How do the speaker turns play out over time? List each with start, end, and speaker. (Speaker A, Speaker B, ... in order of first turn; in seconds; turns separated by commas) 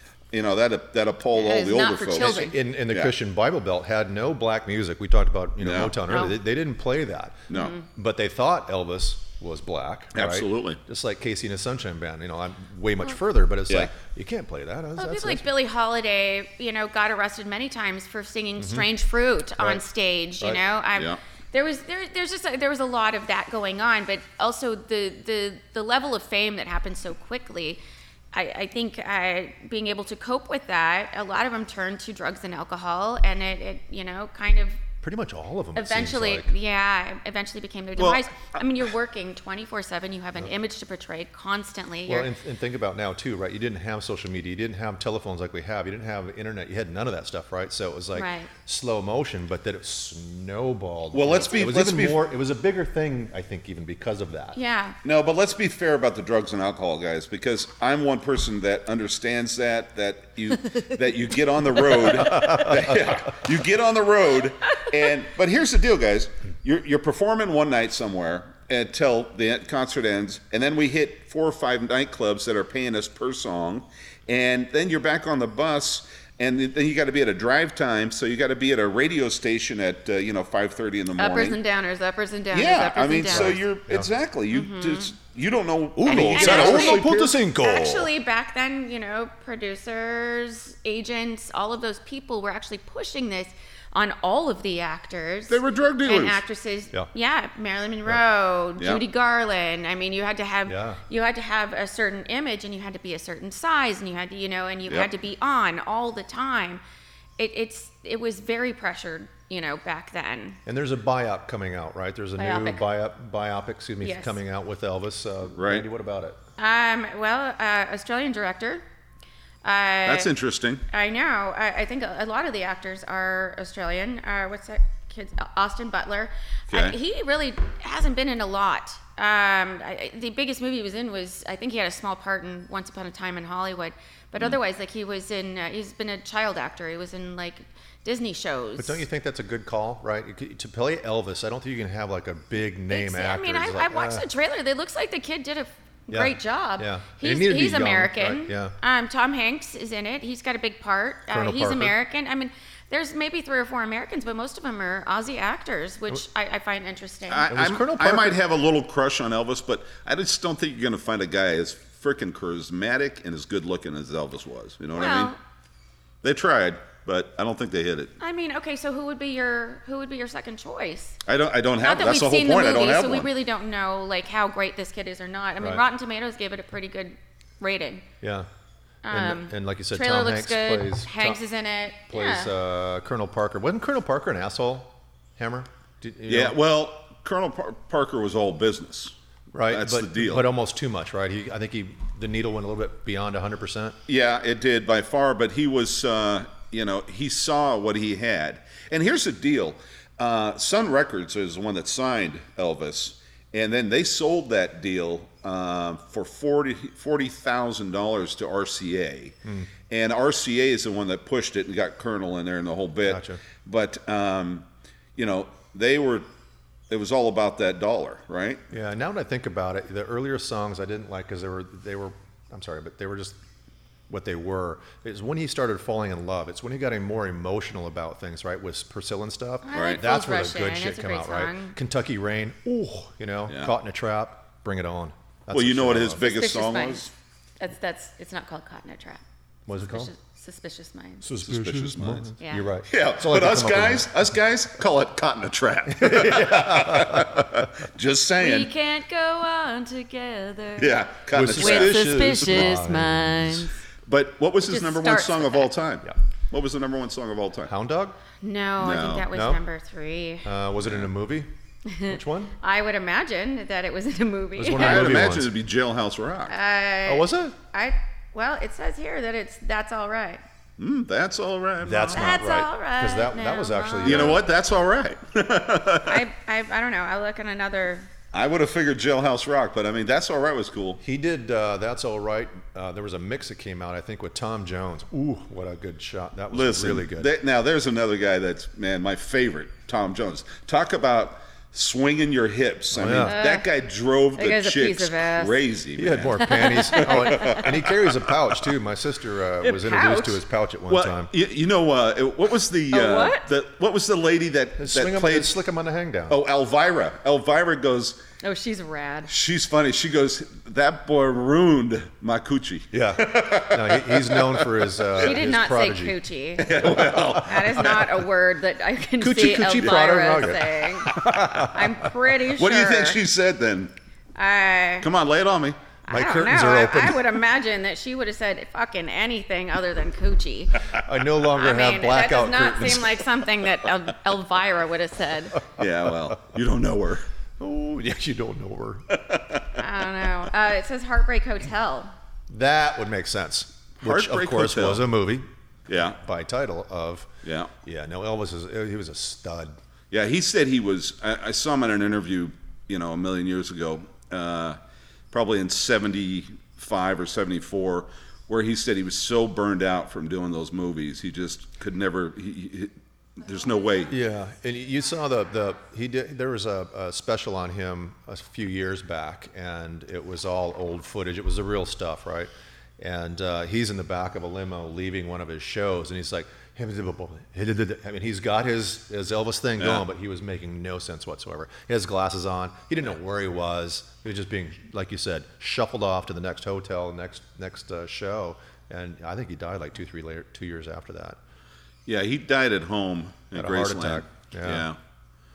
Speaker A: 0.3-3.1, Speaker B: 1.3-2.5, Speaker C: 2.1-15.5, Speaker A: 5.6-6.2, Speaker B: 6.1-6.3, Speaker A: 7.5-7.7, Speaker B: 7.5-7.8, Speaker A: 10.1-10.8, Speaker B: 15.0-27.8, Speaker C: 18.6-18.9, Speaker A: 20.9-21.2, Speaker B: 28.3-34.8, Speaker C: 35.0-36.5, Speaker B: 35.7-42.3, Speaker A: 38.0-38.6, Speaker C: 42.1-54.6, Speaker B: 48.1-48.5, Speaker A: 51.1-52.2, Speaker B: 54.5-55.0, Speaker A: 55.0-81.6, Speaker C: 62.3-62.8, Speaker B: 81.2-83.6, Speaker A: 82.5-87.3, Speaker C: 83.3-84.1, Speaker B: 84.5-85.1, Speaker C: 86.0-88.1, Speaker B: 86.0-106.8, Speaker A: 95.5-96.4, Speaker C: 100.7-101.0, Speaker B: 107.4-110.6, Speaker C: 110.7-116.4, Speaker B: 112.4-112.8, Speaker B: 114.0-114.4, Speaker A: 115.5-115.8, Speaker B: 116.6-118.8, Speaker B: 119.6-120.3, Speaker A: 120.0-120.8, Speaker B: 120.9-139.0, Speaker A: 126.7-127.0, Speaker C: 138.8-144.2, Speaker B: 142.9-157.5, Speaker C: 146.1-148.7, Speaker C: 151.3-151.9, Speaker A: 157.3-165.3, Speaker C: 157.5-158.4, Speaker B: 164.9-165.4, Speaker A: 166.2-168.1, Speaker B: 168.2-171.2, Speaker A: 171.2-173.3, Speaker B: 171.8-178.0, Speaker C: 178.2-178.5, Speaker B: 179.0-182.5, Speaker C: 179.1-181.4, Speaker C: 182.1-186.6, Speaker A: 186.2-189.1, Speaker C: 189.5-193.9, Speaker A: 189.7-190.5, Speaker A: 194.1-209.3, Speaker C: 209.4-209.7, Speaker A: 209.9-216.3, Speaker C: 213.1-213.4, Speaker A: 216.9-218.6, Speaker C: 218.7-223.3, Speaker C: 224.1-236.2, Speaker B: 229.6-231.8, Speaker A: 229.7-230.0, Speaker A: 235.5-237.1, Speaker B: 236.2-239.2, Speaker C: 239.7-240.1, Speaker B: 239.7-241.2, Speaker C: 241.2-244.3, Speaker A: 241.2-242.3, Speaker B: 242.4-242.7, Speaker A: 242.9-248.7, Speaker C: 245.9-247.6, Speaker B: 248.4-250.9, Speaker A: 250.8-252.7, Speaker C: 251.3-253.7, Speaker B: 251.6-253.7, Speaker A: 254.1-257.7, Speaker B: 254.6-255.7, Speaker C: 257.7-258.2, Speaker B: 258.4-260.5, Speaker A: 258.8-259.3, Speaker C: 259.3-259.6, Speaker C: 260.4-261.5, Speaker A: 260.8-261.1, Speaker B: 261.9-265.2, Speaker C: 262.0-262.5, Speaker C: 264.6-265.5, Speaker A: 264.7-266.5, Speaker B: 266.5-270.4, Speaker C: 267.1-267.6, Speaker A: 270.8-272.3, Speaker C: 271.8-274.4, Speaker B: 272.1-274.4, Speaker A: 274.0-276.2, Speaker B: 276.1-278.1, Speaker A: 278.3-281.0, Speaker C: 281.0-287.3, Speaker A: 286.5-298.4, Speaker C: 292.9-293.4, Speaker B: 293.2-293.7, Speaker B: 294.4-295.6, Speaker C: 296.0-301.3, Speaker B: 296.4-297.6, Speaker B: 299.6-300.4, Speaker A: 300.9-305.6, Speaker B: 302.9-303.5, Speaker C: 304.8-306.4, Speaker A: 306.3-308.2, Speaker B: 308.4-309.3, Speaker A: 309.3-315.4, Speaker C: 312.9-316.2, Speaker B: 315.2-323.2, Speaker A: 316.6-318.2, Speaker C: 316.8-317.1, Speaker C: 319.2-322.1, Speaker A: 319.8-320.0, Speaker A: 321.1-321.4, Speaker A: 322.6-323.9, Speaker B: 324.3-325.1, Speaker A: 325.0-325.8, Speaker B: 326.0-330.8, Speaker C: 326.1-327.2, Speaker C: 331.0-333.2, Speaker B: 331.5-335.6, Speaker A: 335.8-337.2, Speaker C: 335.8-336.3, Speaker C: 337.6-339.1, Speaker A: 339.1-339.8, Speaker B: 339.8-342.1, Speaker C: 342.5-345.4, Speaker A: 344.0-345.1, Speaker A: 345.9-346.2, Speaker C: 346.1-347.3, Speaker A: 347.4-347.7, Speaker C: 347.8-349.8, Speaker A: 350.1-354.8, Speaker A: 355.3-364.1, Speaker C: 364.1-391.4, Speaker A: 379.8-380.0, Speaker A: 392.1-395.0, Speaker C: 393.5-394.9